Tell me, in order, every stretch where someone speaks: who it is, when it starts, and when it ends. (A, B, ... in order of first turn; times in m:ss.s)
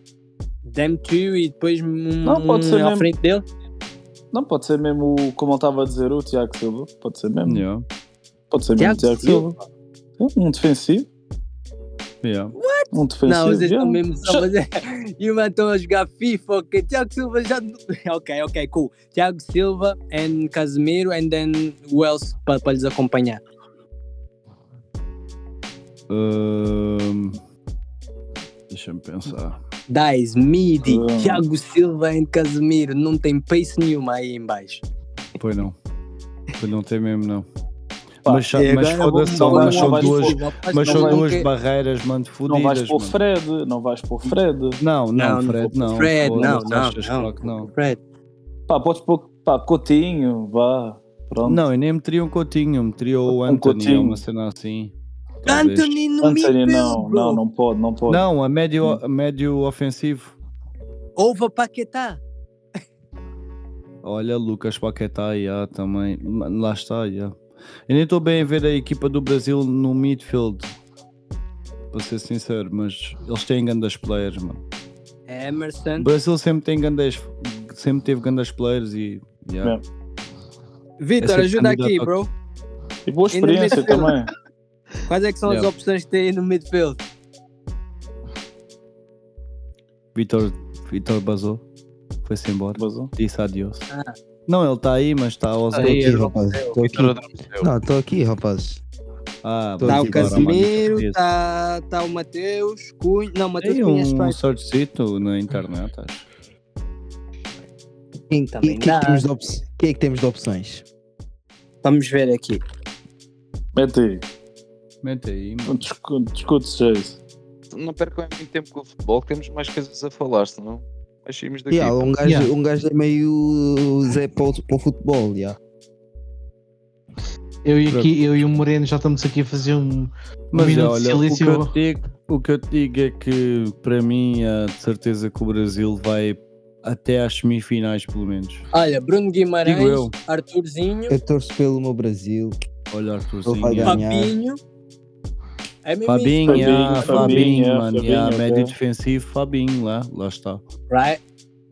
0:00.6-0:03.4 A
0:02.2-0:03.1 B
0:04.3-0:07.6 B
0:07.5-0:07.9 C
0:08.5-0:09.6 B
0:08.8-0:09.5 A
0:10.2-0:11.1 B
0:12.2-0:12.6 C
0:12.6-0:23.4 A
0:12.9-0:14.5 B
0:26.1-0:27.4 C
0:28.7-0:29.6 C
0:29.9-0:34.8 A
0:30.8-0:31.4 B
0:35.4-0:35.8 C
0:36.6-0:37.5 C
0:38.2-0:38.6 B
0:38.2-0:43.2 C
0:38.6-0:41.5 A
0:39.3-0:41.2 B
0:42.5-0:44.8 B
0:44.8-0:47.7 C
0:45.2-0:48.0 A
0:48.7-0:51.6 B
0:51.4-0:56.0 C
0:53.3-0:54.2 B
0:55.5-0:57.4 A
0:56.2-0:58.2 B
0:58.1-1:00.4 C
1:01.2-1:02.2 A
1:04.0-1:07.4 C
1:07.9-1:10.7 C
1:11.9-1:14.6 C
1:15.3-1:16.1 A
1:16.0-1:19.8 C
1:21.0-1:22.3 A
1:21.2-1:22.1 C
1:23.1-1:24.3 B
1:23.3-1:24.2 A
1:25.1-1:27.0 A
1:30.2-1:31.6 C
1:32.2-1:33.9 C
1:32.8-1:33.1 B
1:34.5-1:36.2 C
1:35.7-1:37.7 D
1:35.8-1:38.8 E
1:39.4-1:41.2 C
1:39.8-1:40.7 E
1:39.9-1:44.4 A
1:43.6-1:46.3 C
1:48.3-1:50.8 E
1:48.5-1:49.3 A
1:51.8-1:52.6 A
1:53.8-1:54.2 B
1:55.0-1:55.8 C
1:55.7-1:57.2 B
1:57.7-2:02.1 D
2:01.7-2:05.6 E
2:02.2-2:02.5 F
2:07.6-2:11.7 F
2:07.9-2:08.6 C
2:10.5-2:18.6 C
2:18.7-2:21.2 A
2:19.6-2:20.1 C
2:21.1-2:22.6 E
2:22.9-2:24.0 C
2:23.4-2:24.3 E
2:23.9-2:24.6 A
2:25.8-2:27.5 A
2:26.0-2:30.6 C
2:26.5-2:28.7 B
2:30.9-2:31.2 A